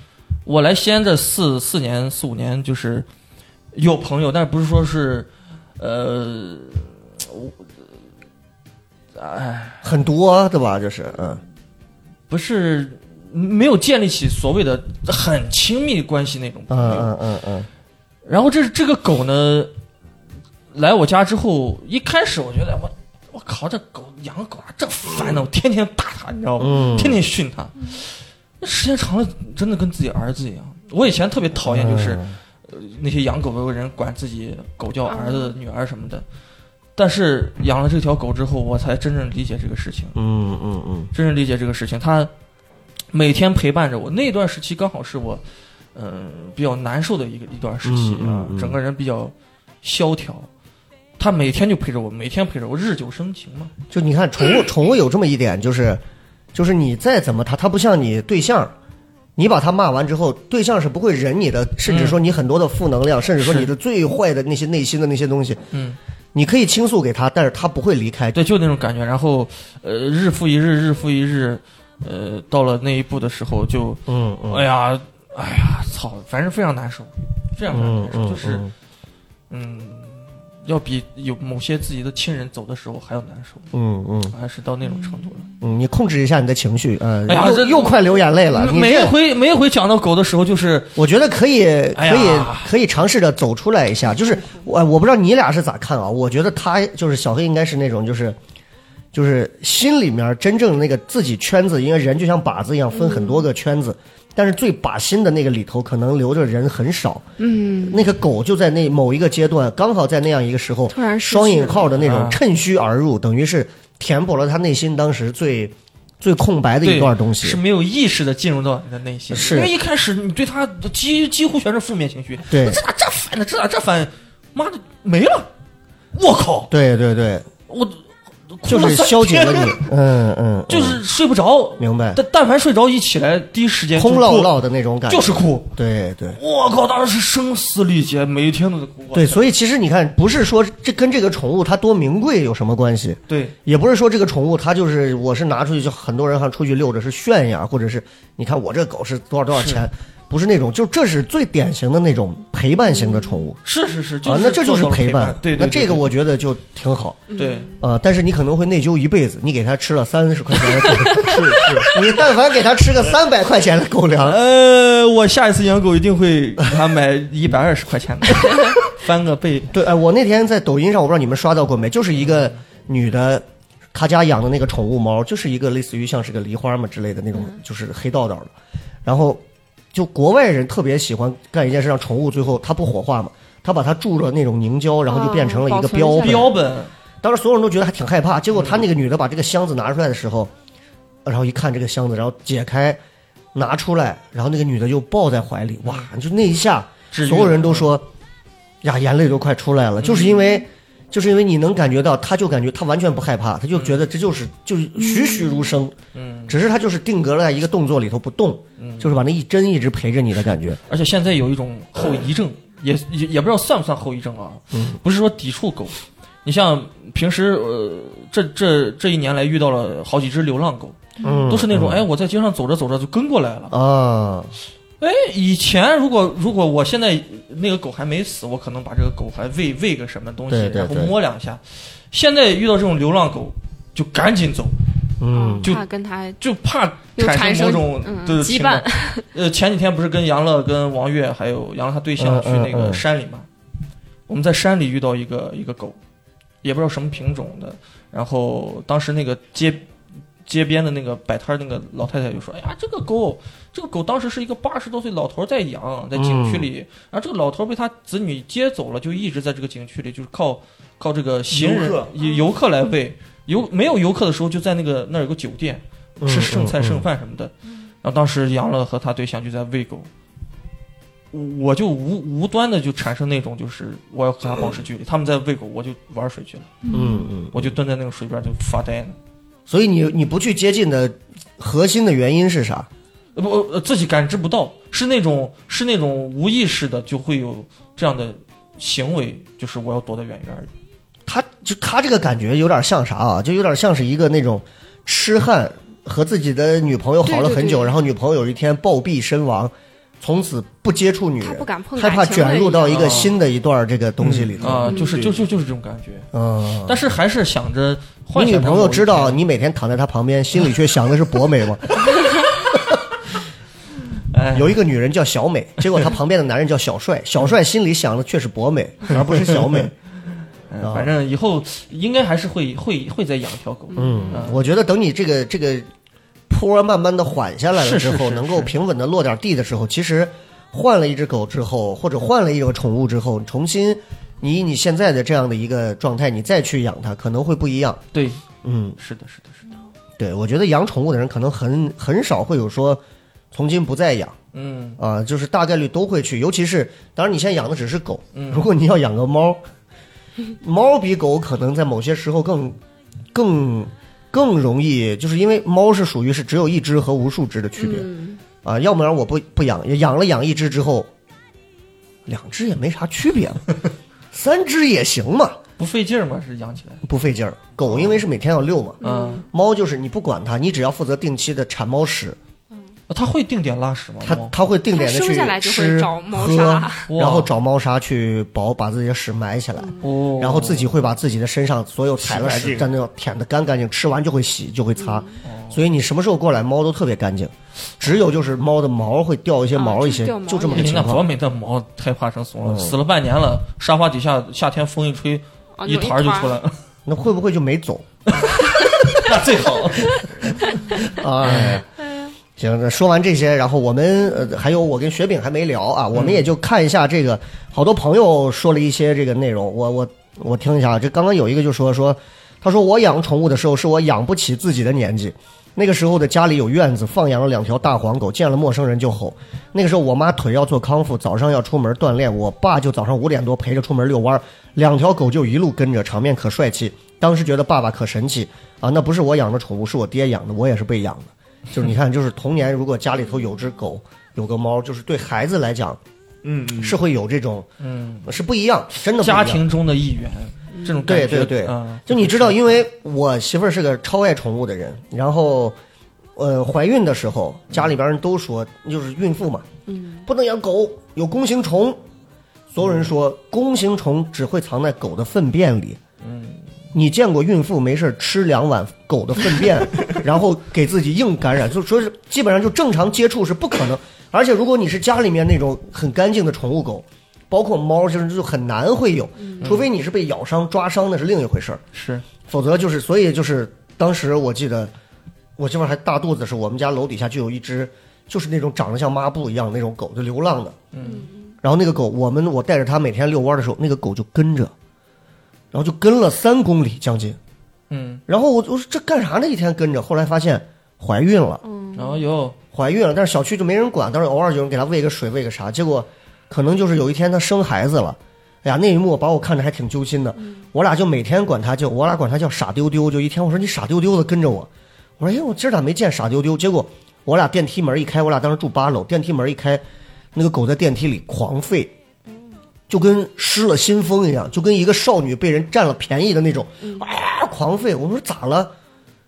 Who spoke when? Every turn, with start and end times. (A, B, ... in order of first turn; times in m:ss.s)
0:00.4-0:03.1 A
0:03.7-0:07.5 A
0:09.2-0:09.8 A
0:09.8-0:11.4 B
0:12.3-0:17.1 A
0:16.7-0:17.7 B
0:18.2-0:19.7 A
0:20.7-0:36.2 A
0:26.6-0:27.2 B
0:31.6-0:32.4 B
0:35.1-0:35.6 C
0:37.0-0:40.2 A
0:40.1-0:41.1 B
0:41.1-0:42.3 A
0:43.1-0:45.4 A
0:45.9-0:50.5 A
0:47.8-0:48.8 B
0:51.2-0:53.7 A
0:53.9-0:56.0 B
0:56.5-0:58.7 B
0:59.4-1:05.6 B
1:01.8-1:02.2 A
1:03.4-1:03.7 A
1:05.7-1:06.0 A
1:06.3-1:08.4 B
1:08.3-1:18.7 A
1:14.1-1:14.6 B
1:17.7-1:18.7 B
1:19.5-1:23.7 A
1:23.7-1:24.3 B
1:24.3-1:25.5 A
1:25.0-1:25.2 C
1:25.6-1:29.2 B
1:27.2-1:28.0 A
1:28.5-1:31.0 A
1:31.0-1:38.4 B
1:31.9-1:32.7 A
1:34.3-1:34.6 C
1:39.1-1:47.3 B
1:42.9-1:43.4 C
1:47.4-1:48.1 C
1:47.8-1:57.6 B
1:50.9-1:51.8 C
1:51.7-1:52.4 A
1:56.8-2:05.5 A
1:59.3-1:59.7 B
2:02.5-2:02.8 B
2:06.1-2:06.7 A
2:06.7-2:07.5 B
2:07.7-2:09.9 A
2:08.6-2:11.0 B
2:10.7-2:14.5 A
2:11.8-2:12.2 B
2:14.0-2:16.4 B
2:15.1-2:15.7 A
2:16.4-2:19.4 A
2:19.1-2:33.6 B
2:23.3-2:23.5 A
2:29.5-2:29.8 A
2:33.6-2:36.1 A
2:34.2-2:37.2 B
2:37.3-2:37.8 C
2:37.4-2:37.7 A
2:37.8-2:44.4 B
2:41.2-2:41.9 D
2:44.2-2:49.7 A
2:49.7-2:58.5 B
2:59.0-3:06.5 B
3:05.1-3:06.6 C
3:06.2-3:06.9 A
3:07.2-3:10.5 B
3:08.5-3:08.8 A
3:11.2-3:13.0 B
3:13.5-3:18.1 B
3:17.1-3:17.9 A
3:18.8-3:25.9 B
3:20.0-3:20.4 A
3:23.7-3:24.0 A
3:25.0-3:25.6 C
3:26.1-3:26.6 A
3:26.5-3:30.8 B
3:28.8-3:29.1 A
3:30.8-3:43.7 A
3:34.7-3:35.0 B
3:41.2-3:41.5 C
3:41.2-3:42.0 B
3:43.7-3:44.5 B
3:45.0-3:54.8 A
3:50.5-3:51.2 B
3:55.2-3:55.7 B
3:55.3-3:56.4 C
3:56.4-4:03.5 A
3:57.2-3:59.2 C
4:02.2-4:03.0 B
4:04.3-4:06.0 A
4:06.6-4:09.9 A
4:10.4-4:30.1 A
4:16.1-4:16.7 B
4:21.5-4:22.1 D
4:26.2-4:27.0 B
4:31.3-4:36.7 A
4:36.8-4:37.3 C
4:36.9-4:37.7 B
4:37.5-4:39.2 A
4:39.7-4:42.9 B
4:43.4-4:50.7 A
4:51.2-5:05.0 B
4:57.2-4:57.9 C
5:01.4-5:03.2 C
5:02.8-5:03.4 A
5:04.2-5:06.3 A
5:04.6-5:05.4 D
5:04.9-5:05.2 C
5:06.3-5:07.0 B
5:06.8-5:09.4 A
5:08.3-5:13.0 B
5:14.3-5:14.8 A
5:14.5-5:19.9 B
5:19.4-5:19.8 A
5:20.7-5:24.6 A
5:20.8-5:21.1 B
5:23.9-5:24.3 C
5:24.0-5:25.9 B
5:26.5-5:38.0 B
5:27.8-5:28.7 A
5:38.1-5:38.4 A
5:38.6-5:39.0 B
5:39.0-5:39.7 A
5:40.2-5:44.4 B
5:44.5-5:45.0 A
5:45.0-5:49.6 B
5:48.3-5:48.7 A
5:50.6-5:52.8 B
5:53.3-5:58.1 B
5:57.8-5:58.4 C
5:58.6-6:01.1 B
6:02.2-6:03.7 B
6:04.3-6:05.6 B
6:05.8-6:07.0 A
6:07.0-6:12.4 B
6:07.9-6:08.2 A
6:09.0-6:09.4 C
6:09.0-6:09.4 A
6:13.1-6:14.5 A
6:14.2-6:31.2 B
6:14.9-6:17.1 C
6:17.1-6:17.5 A
6:20.0-6:21.0 A
6:22.2-6:22.9 D
6:25.0-6:25.3 C
6:25.4-6:25.8 A
6:29.7-6:31.0 C
6:30.7-6:36.8 A
6:32.6-6:33.0 B
6:35.8-6:36.6 C
6:37.0-6:38.1 B
6:38.3-6:41.8 A
6:41.0-6:41.9 B
6:42.6-7:16.0 B
6:46.1-6:46.5 A
7:16.4-7:17.0 D
7:16.8-7:17.7 B
7:17.8-7:18.3 A
7:18.2-7:19.6 B
7:19.2-7:22.8 A
7:20.7-7:21.0 C
7:21.0-7:25.8 B
7:26.4-7:29.7 B
7:29.9-7:30.2 C
7:30.2-7:32.0 B
7:32.7-7:36.0 B
7:36.2-7:36.7 A
7:36.9-7:51.8 B
7:49.6-7:49.9 A
7:51.9-7:52.2 A
7:52.4-7:54.9 B
7:55.6-8:00.8 B
8:00.9-8:01.3 A
8:01.0-8:01.5 C
8:01.6-8:04.7 B
8:05.7-8:07.4 B
8:07.9-8:08.2 A
8:08.3-8:11.6 B
8:11.6-8:12.2 C
8:11.9-8:12.6 A
8:12.7-8:29.8 B
8:30.3-8:31.9 B
8:32.9-8:38.7 B